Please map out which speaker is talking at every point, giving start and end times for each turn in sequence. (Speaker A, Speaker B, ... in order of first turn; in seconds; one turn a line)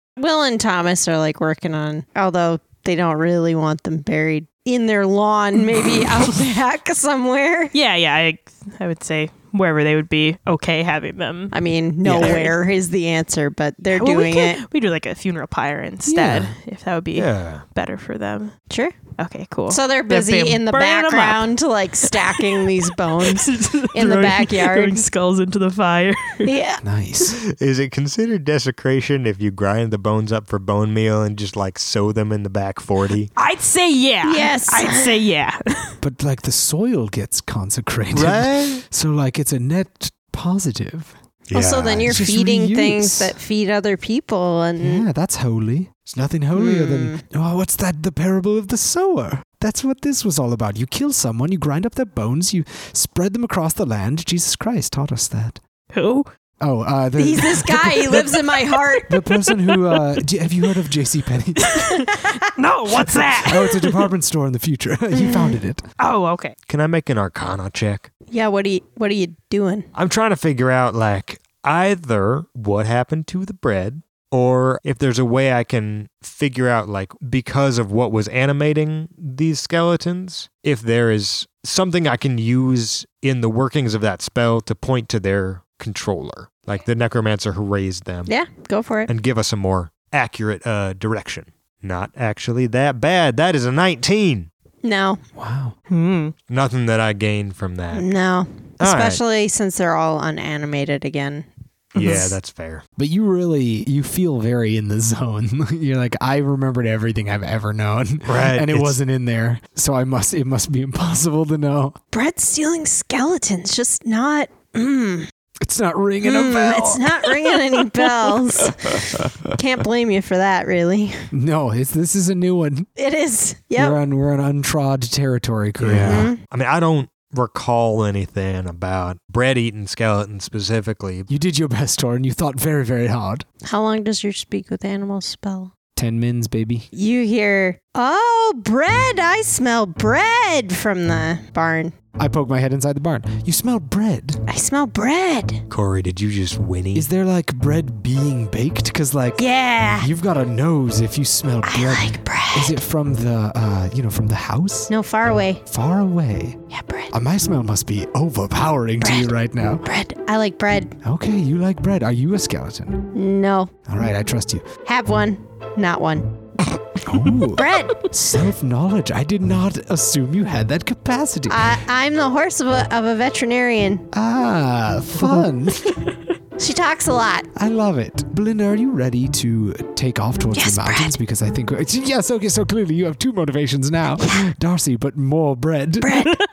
Speaker A: 0.2-7.7
Speaker B: 7.7-11.5
Speaker A: 11.5-14.6
Speaker C: 12.1-12.4
Speaker D: 12.1-12.5
Speaker B: 13.9-18.5
Speaker C: 16.1-16.6
Speaker D: 17.1-17.6
Speaker A: 18.7-19.0
Speaker B: 19.2-26.5
Speaker A: 19.7-25.1
Speaker A: 26.4-26.8
Speaker C: 26.8-27.4
Speaker D: 27.2-33.3
Speaker B: 33.4-36.0
Speaker A: 34.2-35.1
Speaker C: 36.0-41.1
Speaker D: 38.1-38.8
Speaker D: 41.5-42.2
Speaker A: 41.5-45.0
Speaker C: 42.1-43.4
Speaker C: 44.8-55.6
Speaker A: 46.5-47.2
Speaker B: 55.9-56.3
Speaker C: 56.6-58.3
Speaker A: 57.2-59.1
Speaker C: 59.1-61.8
Speaker B: 59.1-60.0
Speaker B: 61.6-64.1
Speaker A: 62.0-62.4
Speaker C: 62.9-65.8
Speaker A: 65.1-65.6
Speaker B: 66.0-66.5
Speaker D: 66.7-68.1
Speaker A: 68.3-69.9
Speaker D: 70.0-88.3
Speaker A: 88.3-89.1
Speaker D: 89.1-94.5
Speaker A: 94.8-95.2
Speaker C: 95.4-95.8
Speaker B: 95.9-96.3
Speaker D: 96.5-98.1
Speaker A: 97.9-101.5
Speaker D: 98.8-99.2
Speaker B: 102.0-102.3
Speaker D: 102.0-102.8
Speaker C: 103.0-112.0
Speaker D: 108.3-109.0
Speaker A: 112.1-115.3
Speaker C: 115.6-119.5
Speaker A: 116.2-121.3
Speaker C: 121.3-122.9
Speaker A: 123.0-124.0
Speaker C: 123.8-126.3
Speaker D: 125.8-131.3
Speaker A: 126.0-126.4
Speaker C: 131.3-133.4
Speaker A: 133.6-135.7
Speaker C: 136.0-136.9
Speaker A: 136.9-141.9
Speaker C: 142.2-144.4
Speaker A: 144.5-145.6
Speaker D: 145.7-147.1
Speaker C: 146.9-154.9
Speaker A: 149.4-150.1
Speaker A: 151.6-152.8
Speaker A: 154.9-155.6
Speaker C: 155.7-156.6
Speaker A: 156.7-157.1
Speaker C: 157.1-159.8
Speaker A: 159.0-159.3
Speaker A: 159.8-161.0
Speaker C: 161.0-163.1
Speaker A: 163.1-163.7
Speaker C: 163.9-164.7
Speaker A: 164.8-166.4
Speaker C: 167.0-171.8
Speaker A: 167.5-168.1
Speaker A: 171.5-174.1
Speaker C: 174.1-176.0
Speaker A: 176.6-177.5
Speaker C: 177.6-186.3
Speaker A: 180.5-181.2
Speaker A: 186.0-186.4